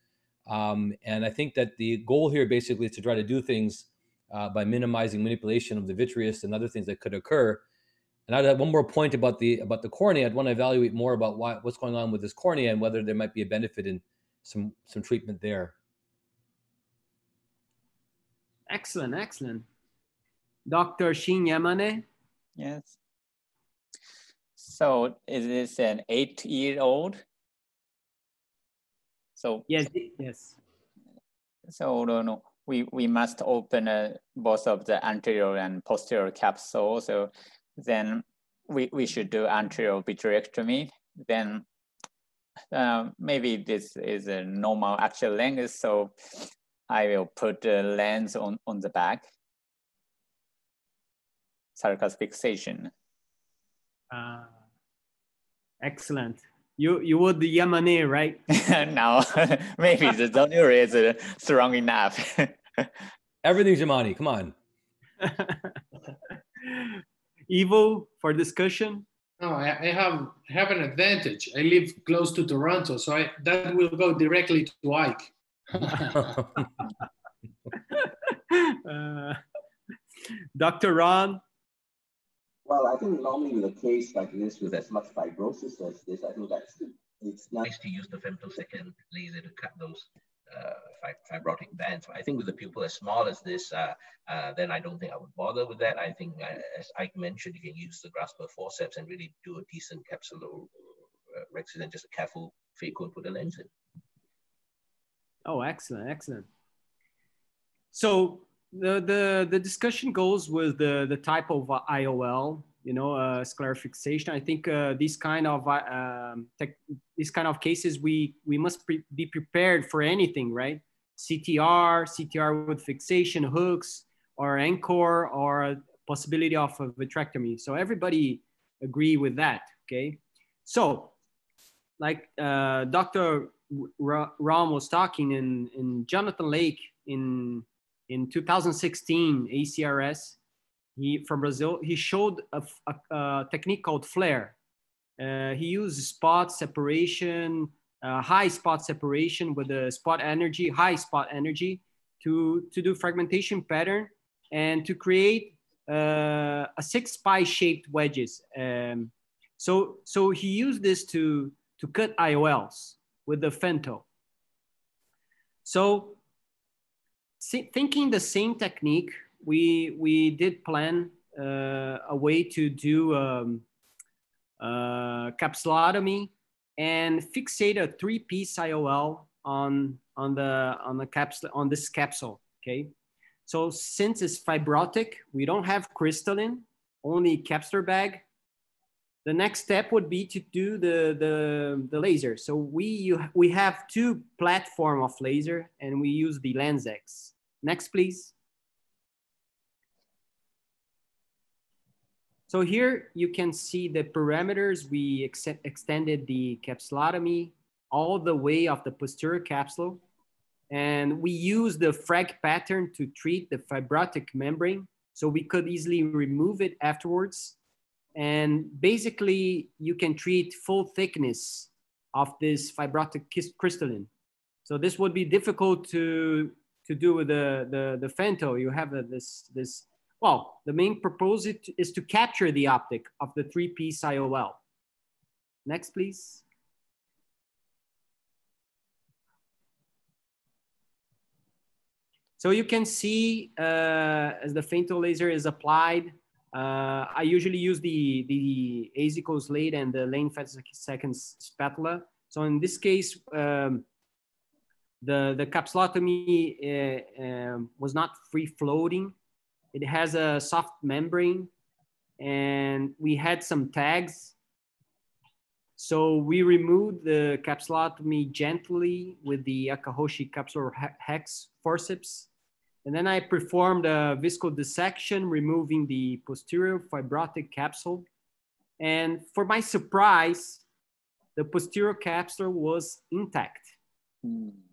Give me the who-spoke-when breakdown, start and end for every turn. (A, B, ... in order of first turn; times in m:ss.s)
0:00.5-0:07.6 A
0:08.3-0:15.7 A
0:18.7-0:19.7 B
0:20.7-0:22.0 B
0:22.6-0:23.0 C
0:24.6-0:27.2 C
0:29.4-0:29.9 C
0:29.7-0:30.6 B
0:31.7-0:41.6 C
0:42.7-0:49.2 C
0:51.8-0:52.9 C
0:54.1-0:54.5 B
0:55.8-0:58.4 B
0:58.5-1:02.9 C
1:03.4-1:04.5 A
1:05.2-1:05.8 B
1:06.6-1:09.1 B
1:09.4-1:16.2 D
1:17.9-1:19.4 B
1:20.6-1:21.4 B
1:22.7-1:40.7 E
1:41.4-1:43.7 E
1:45.4-1:46.5 B
1:47.9-2:11.1 B
2:12.0-2:20.4 B
2:21.0-2:24.6 B
2:25.2-2:44.0 B
2:45.6-2:46.2 B
2:47.4-2:53.6 B
2:54.6-3:02.9 B
3:03.5-3:08.2 B
3:09.2-3:18.3 B
3:22.5-3:30.0 B
3:30.7-3:37.6 B
3:38.2-3:44.1 B
3:44.6-3:54.6 B
3:55.6-3:56.4 B
4:02.4-4:13.8 B
4:15.0-4:19.2 B
4:19.7-4:21.5 B
4:22.2-4:24.4 B
4:25.8-4:32.3 B
4:32.8-4:38.1 B
4:38.8-4:40.6 B
4:41.4-4:43.8 B
4:44.3-4:44.5 C